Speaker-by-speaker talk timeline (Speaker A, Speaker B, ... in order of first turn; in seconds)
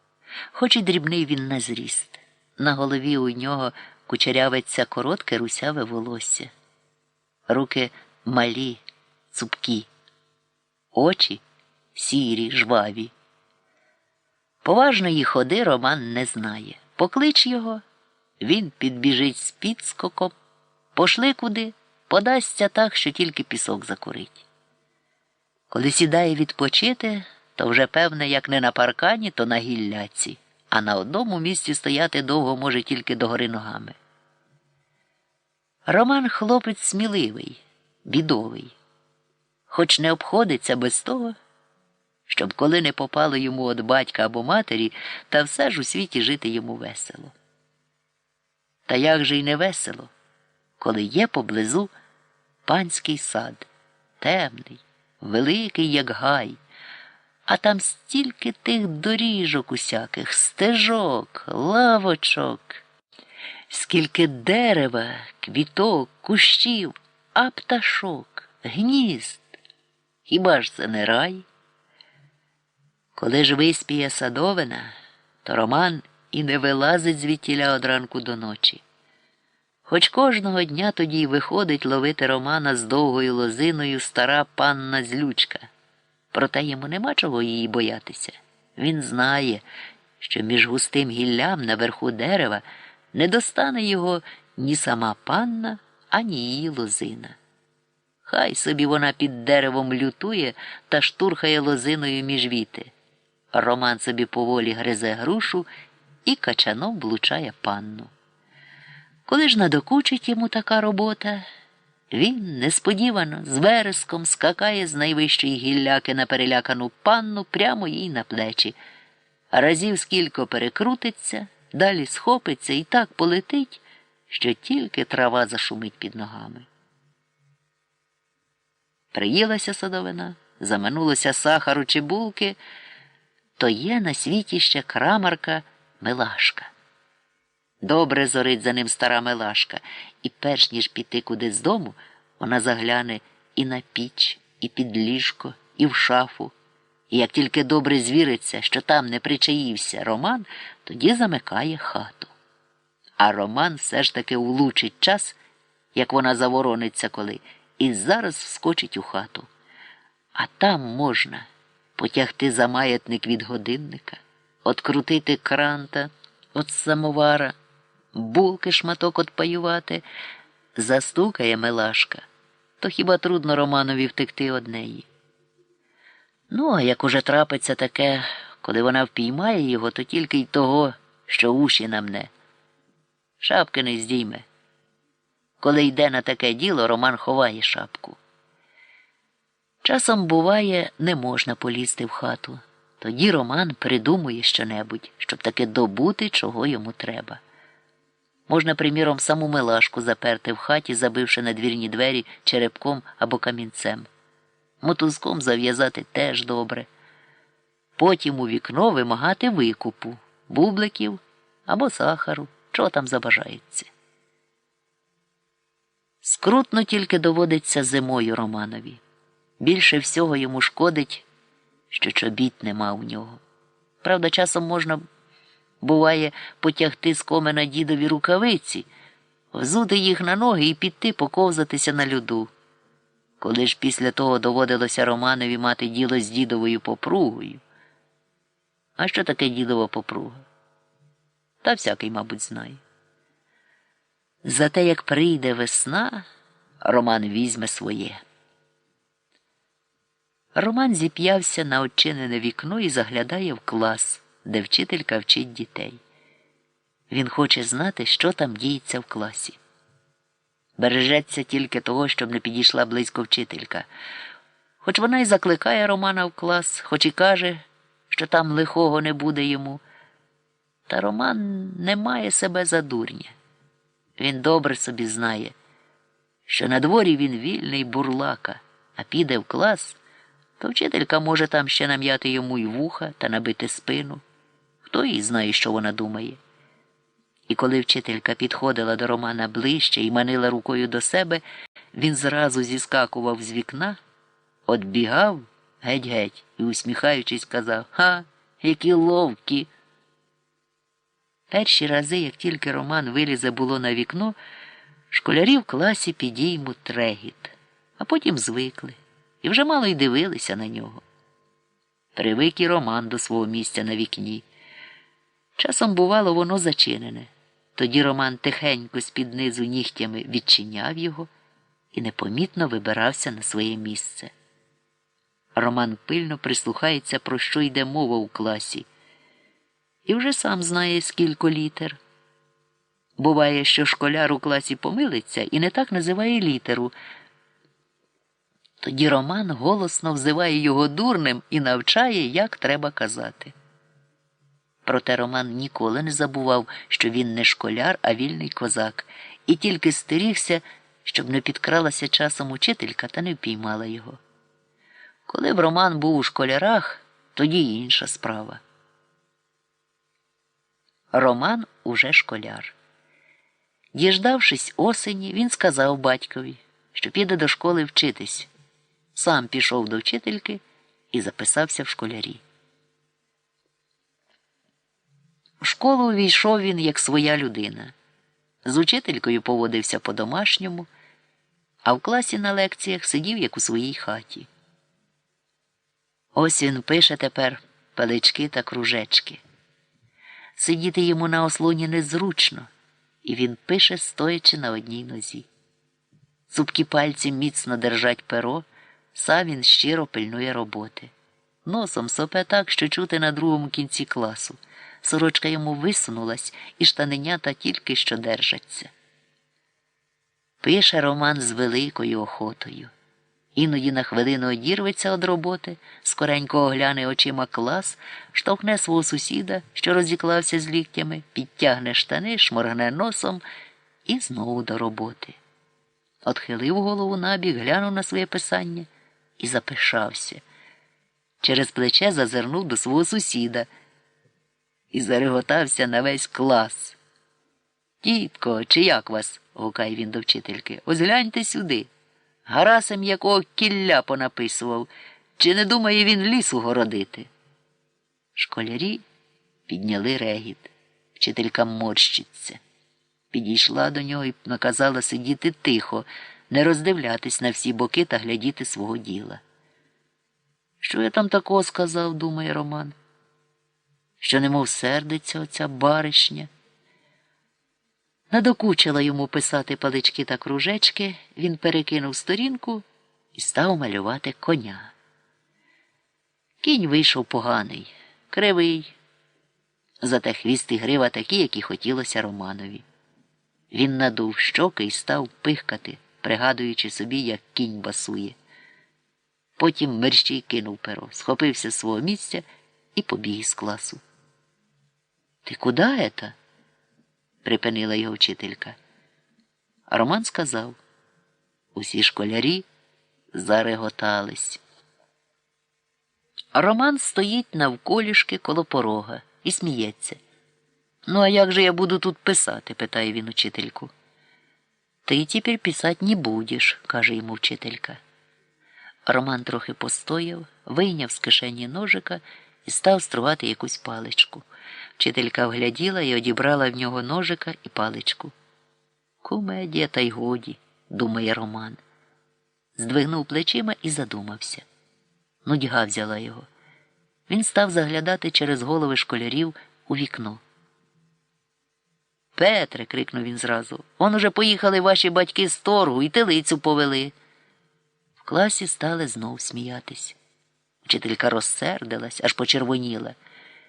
Speaker A: 0.5-6.5, 7.5-9.9, 10.9-11.4, 11.9-13.1, 14.6-17.8, 18.4-20.3, 21.0-24.5, 25.7-34.0, 35.9-38.7, 39.7-41.4, 42.3-47.4, 48.9-50.1, 50.8-51.9, 52.7-53.7, 54.2-56.6, 57.5-62.8, 63.7-69.4, 70.3-71.5, 73.2-74.9, 75.5-78.8, 79.9-85.7, 86.3-89.6, 90.2-92.6, 93.1-97.4, 98.3-102.9, 103.5-105.7, 106.3-108.1, 109.3-111.5, 112.1-118.8, 119.5-126.7, 129.1-132.6, 133.6-136.7, 137.8-146.6, 147.1-152.3, 153.2-155.4, 155.9-159.5, 160.3-167.6, 168.2-170.0, 170.8-172.2, 172.8-175.1, 176.5-182.3, 183.4-184.4, 185.6-188.2, 189.8-197.4, 198.5-204.1, 204.8-206.9, 208.0-213.9, 216.2-219.0, 219.6-221.3, 221.9-223.4, 224.0-225.0, 225.8-228.9, 229.5-232.5, 233.4-237.6, 239.0-240.4, 241.6-242.8, 244.4-246.3, 246.8-248.2, 250.6-256.0, 257.1-259.6, 260.8-263.9, 264.8-269.8, 270.9-273.4, 274.2-275.5, 276.5-280.0, 280.6-284.2, 284.9-286.4, 287.5-291.4, 291.9-294.0, 294.7-299.7, 301.5-304.4, 305.1-311.0, 312.2-314.4, 315.6-321.3, 321.9-324.3, 325.6-328.9, 330.1-332.0, 333.2-336.9, 338.8-343.5, 344.9-354.2, 355.3-358.6, 361.1-362.8, 363.9-368.5, 369.1-372.4, 375.6-377.9, 378.6-380.9, 381.9-384.5, 386.4-389.4, 390.6-392.7, 393.2-395.5, 396.5-401.1, 401.7-408.9, 410.6-412.9, 413.6-423.4, 424.1-425.4, 426.2-430.4, 431.4-433.7, 434.9-437.0, 438.0-441.9, 442.5-447.3, 448.4-449.0, 449.7-452.6, 453.3-459.4, 460.8-462.9, 464.2-466.5, 468.3-474.9, 476.6-479.0, 480.0-482.8, 483.7-488.4, 489.6-494.0, 495.4-496.4, 497.4-498.8, 499.9-500.8, 501.8-502.6, 503.3-504.6, 506.6-510.2, 511.1-513.9, 515.1-518.0, 519.1-524.5, 525.0-528.3, 529.2-531.8, 532.8-534.6, 535.5-536.5, 537.3-540.4, 542.4-547.1, 548.2-550.2, 550.9-553.2